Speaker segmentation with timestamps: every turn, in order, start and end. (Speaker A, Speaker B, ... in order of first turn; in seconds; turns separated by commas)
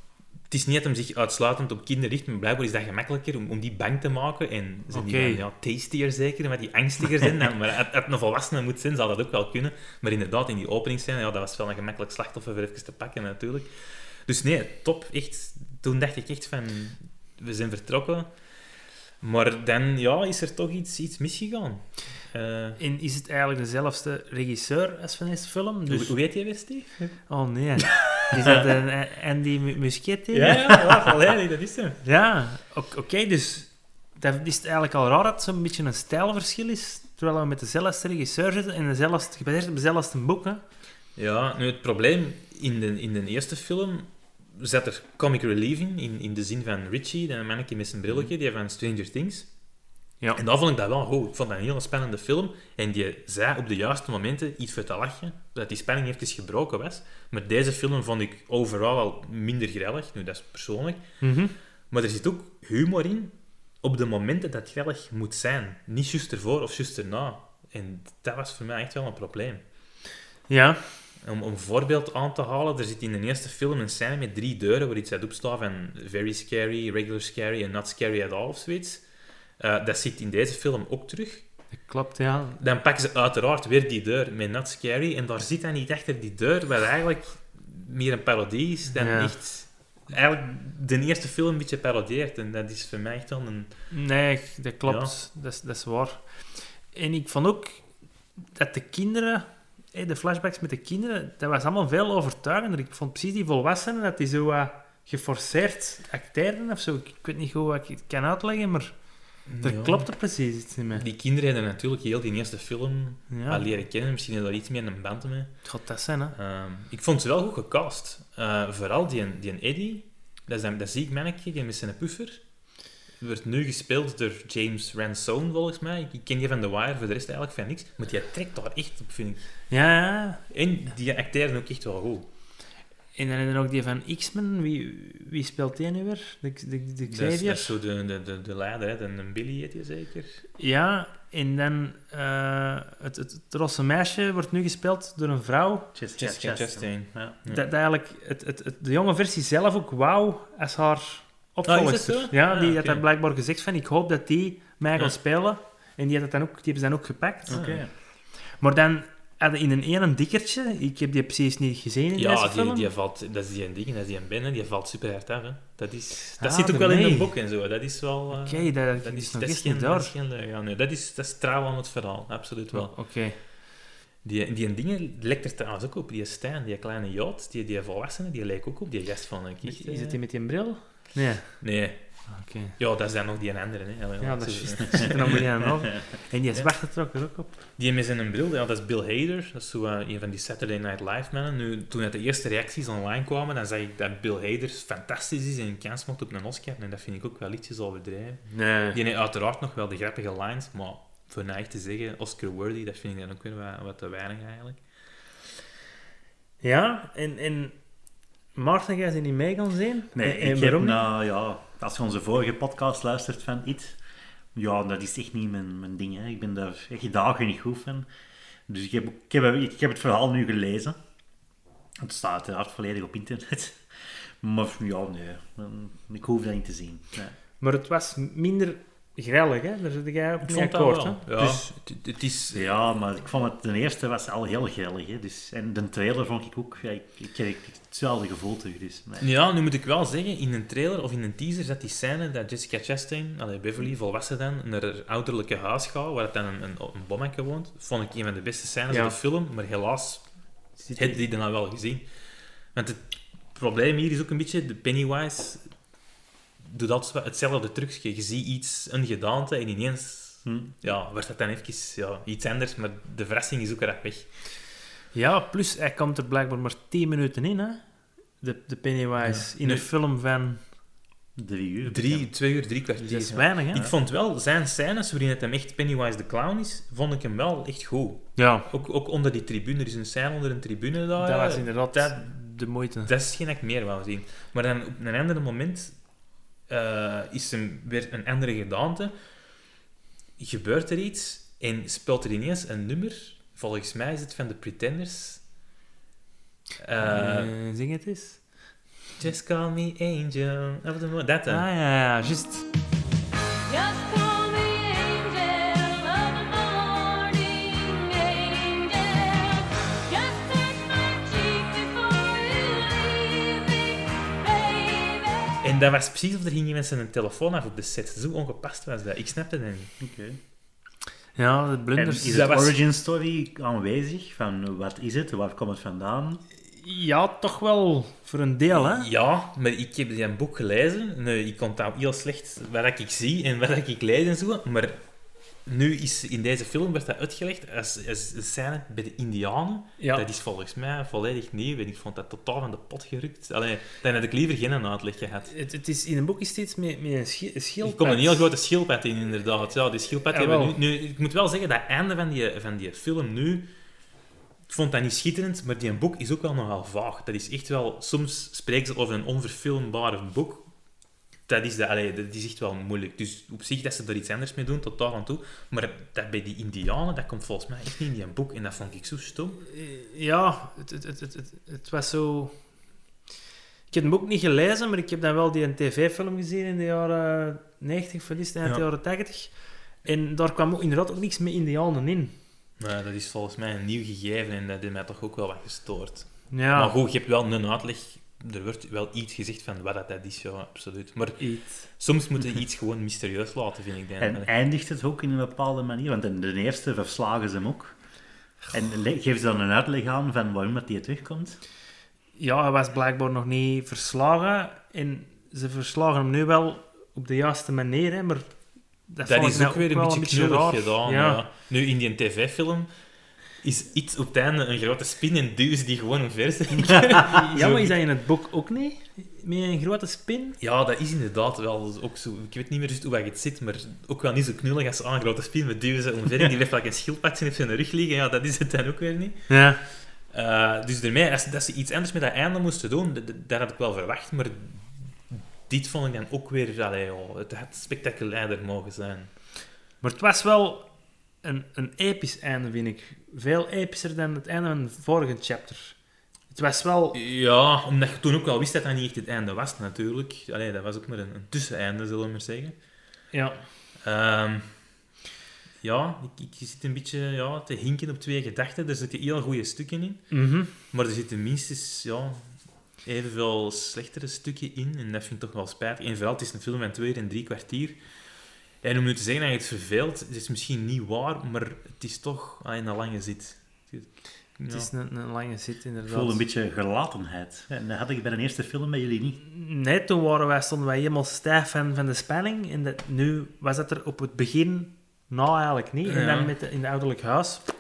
Speaker A: 0.5-18.3, Speaker B: 4.9-5.4, Speaker A: 19.2-22.8, Speaker B: 22.8-26.1, Speaker A: 25.9-27.1, Speaker B: 27.3-30.7, Speaker A: 27.9-28.6, Speaker A: 30.3-32.0, Speaker B: 32.0-40.6, Speaker A: 41.2-49.5, Speaker A: 50.4-61.0, Speaker B: 61.2-61.5, Speaker A: 61.9-69.6, Speaker B: 70.5-70.8, Speaker A: 71.2-79.0, Speaker A: 79.6-81.4, Speaker B: 81.8-82.6, Speaker A: 82.6-93.9, Speaker B: 89.0-89.3, Speaker B: 93.9-97.8, Speaker A: 94.8-95.1, Speaker B: 98.4-108.9, Speaker A: 109.5-110.1, Speaker B: 109.6-111.0, Speaker A: 111.0-115.6, Speaker B: 113.3-113.6, Speaker B: 115.6-116.3, Speaker A: 116.3-122.4, Speaker A: 123.2-129.5, Speaker B: 129.7-130.4, Speaker A: 130.5-132.3, Speaker B: 133.2-137.7, Speaker A: 137.1-140.4, Speaker B: 140.6-145.9, Speaker C: 145.9-147.3, Speaker A: 146.2-147.6, Speaker B: 147.5-157.6, Speaker A: 151.7-153.0, Speaker A: 157.5-157.8, Speaker C: 157.5-157.9, Speaker B: 158.4-162.9, Speaker A: 162.2-173.5, Speaker B: 166.4-167.3, Speaker B: 168.3-170.1, Speaker B: 172.7-173.4, Speaker A: 174.2-180.2, Speaker B: 179.6-181.6, Speaker A: 181.6-185.4, Speaker B: 182.3-182.8, Speaker B: 184.2-187.6, Speaker A: 187.8-204.8, Speaker B: 198.5-199.0, Speaker B: 206.6-207.7, Speaker B: 208.6-211.1, Speaker C: 210.2-214.0, Speaker C: 214.5-218.1, Speaker C: 218.7-221.0, Speaker C: 222.0-227.4, Speaker B: 227.6-231.6, Speaker A: 230.4-232.7, Speaker C: 232.5-239.3, Speaker A: 239.2-250.2, Speaker B: 248.9-249.2, Speaker A: 250.9-252.1, Speaker A: 252.7-255.7, Speaker A: 256.6-264.3, Speaker C: 260.5-260.7, Speaker B: 265.1-267.8, Speaker B: 268.4-270.6, Speaker A: 269.2-269.9, Speaker C: 271.4-272.3, Speaker A: 271.9-282.2, Speaker B: 273.0-273.9, Speaker B: 278.4-278.7, Speaker B: 281.2-283.1, Speaker A: 283.1-285.9, Speaker A: 286.7-289.1, Speaker A: 290.4-295.4, Speaker A: 296.8-297.5, Speaker B: 297.0-298.4, Speaker A: 299.2-301.6, Speaker B: 301.5-302.6, Speaker D: 303.8-309.5, Speaker D: 310.1-315.4, Speaker A: 315.6-319.9, Speaker C: 320.0-320.4, Speaker B: 321.4-322.7, Speaker C: 322.0-326.4, Speaker A: 322.3-322.8, Speaker B: 326.7-329.1, Speaker A: 328.7-335.0, Speaker A: 335.7-345.5, Speaker B: 340.0-340.2, Speaker B: 345.5-348.4, Speaker A: 347.8-353.7, Speaker B: 350.3-350.8, Speaker A: 354.7-360.7, Speaker A: 361.5-369.6, Speaker B: 369.7-372.5, Speaker B: 373.9-382.3, Speaker A: 382.8-394.5, Speaker B: 386.5-386.9, Speaker B: 391.4-391.8, Speaker C: 394.2-397.9, Speaker C: 398.7-401.6, Speaker B: 402.4-408.5, Speaker B: 409.1-411.4, Speaker A: 409.3-412.9, Speaker A: 413.6-417.9, Speaker B: 417.0-420.6, Speaker A: 420.6-429.6, Speaker B: 429.5-429.8, Speaker A: 430.3-439.3, Speaker B: 440.0-440.9, Speaker B: 441.4-446.0, Speaker B: 446.5-447.2, Speaker A: 447.1-452.8, Speaker B: 453.3-453.6, Speaker A: 454.0-454.8, Speaker A: 455.8-462.5, Speaker B: 460.3-460.7, Speaker A: 463.0-468.0, Speaker A: 468.8-474.9, Speaker B: 474.7-476.4, Speaker C: 476.1-479.4, Speaker B: 479.4-487.6, Speaker A: 486.1-486.5